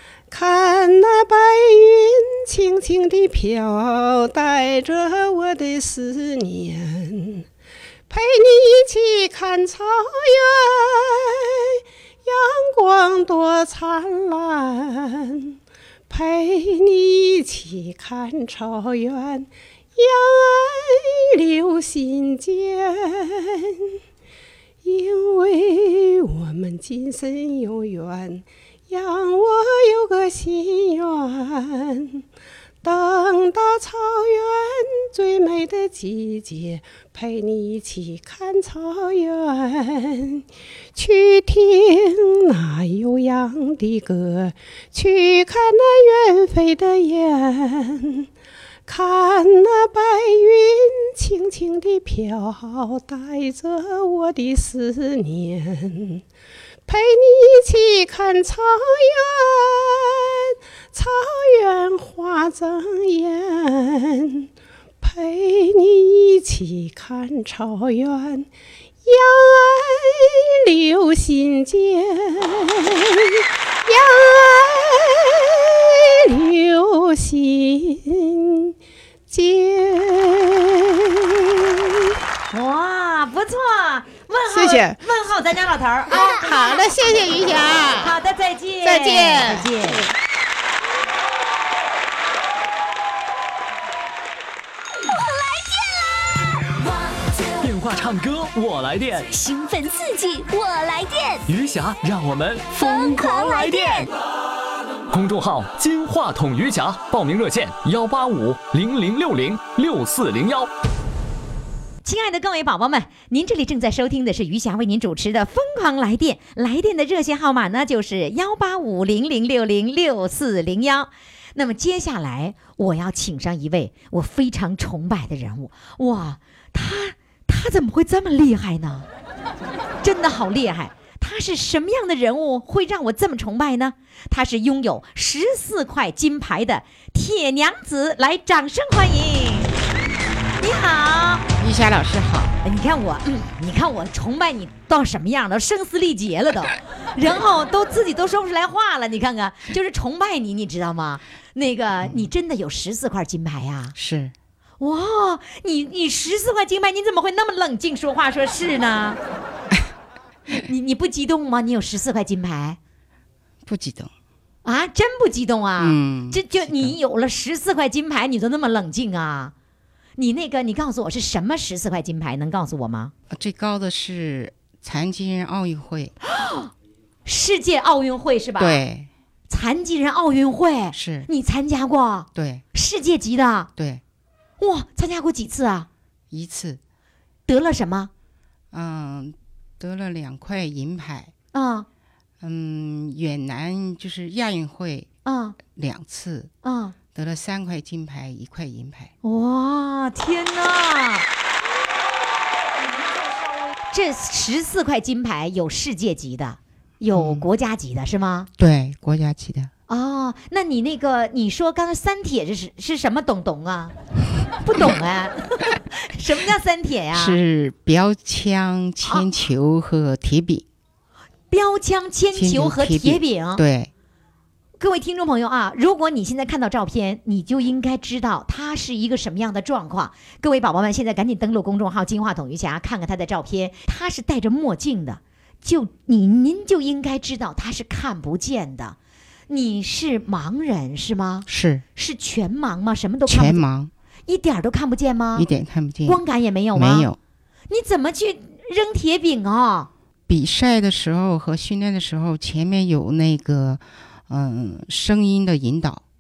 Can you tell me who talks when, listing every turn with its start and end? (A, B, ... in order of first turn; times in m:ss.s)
0:00.3-0:07.5 A
0:08.1-0:15.6 A
0:16.1-0:24.0 A
0:24.8-0:32.2 A
0:32.8-0:40.4 A
0:41.0-0:48.3 A
0:48.9-0:56.2 A
0:56.9-1:04.5 A
1:05.0-1:08.5 A
1:09.0-1:18.7 A
1:19.3-1:22.1 A
1:22.5-1:26.4 B
1:24.5-1:25.0 A
1:26.1-1:28.1 A
1:28.0-1:30.0 B
1:28.8-1:30.1 A
1:35.1-1:37.5 C
1:37.6-1:39.3 D
1:39.3-1:41.5 C
1:41.5-1:44.1 D
1:42.8-1:44.1 C
1:45.1-1:50.7 D
1:52.0-2:09.1 B
2:10.0-2:19.7 B
2:20.6-2:21.5 B
2:21.6-2:22.6 E
2:22.6-2:33.9 B
2:32.0-2:32.3 E
2:34.0-2:34.3 E
2:34.8-2:39.2 B
2:40.6-2:42.8 B
2:43.6-2:44.1 E
2:44.6-2:49.5 B
2:45.8-2:47.0 E
2:50.2-2:53.1 B
2:53.3-2:56.1 E
2:56.3-2:56.7 B
2:57.2-2:58.8 B
2:58.6-2:59.1 E
2:59.5-3:03.7 B
3:00.9-3:01.3 E
3:02.4-3:02.6 E
3:03.8-3:04.0 E
3:04.6-3:05.9 B
3:06.3-3:06.8 E
3:07.5-3:08.1 B
3:08.7-3:11.3 E
3:11.5-3:11.9 B
3:12.4-3:15.1 E
3:15.2-3:15.6 B
3:15.7-3:16.5 E
3:16.6-3:17.0 B
3:17.1-3:19.1 E
3:19.2-3:21.3 B
3:23.9-3:28.5 B
3:27.1-3:27.5 E
3:28.6-3:29.7 E
3:29.9-3:34.0 B
3:34.6-3:37.4 B
3:37.1-3:40.6 E
3:39.0-3:39.3 B
3:41.5-3:43.6 B
3:42.4-3:43.9 E
3:44.8-3:59.0 B
3:59.5-4:03.6 B
4:01.5-4:01.8 E
4:03.3-4:03.9 E
4:04.3-4:05.5 B
4:05.4-4:06.2 E
4:06.1-4:07.1 B
4:06.8-4:07.2 E
4:07.7-4:09.9 B
4:10.3-4:16.0 E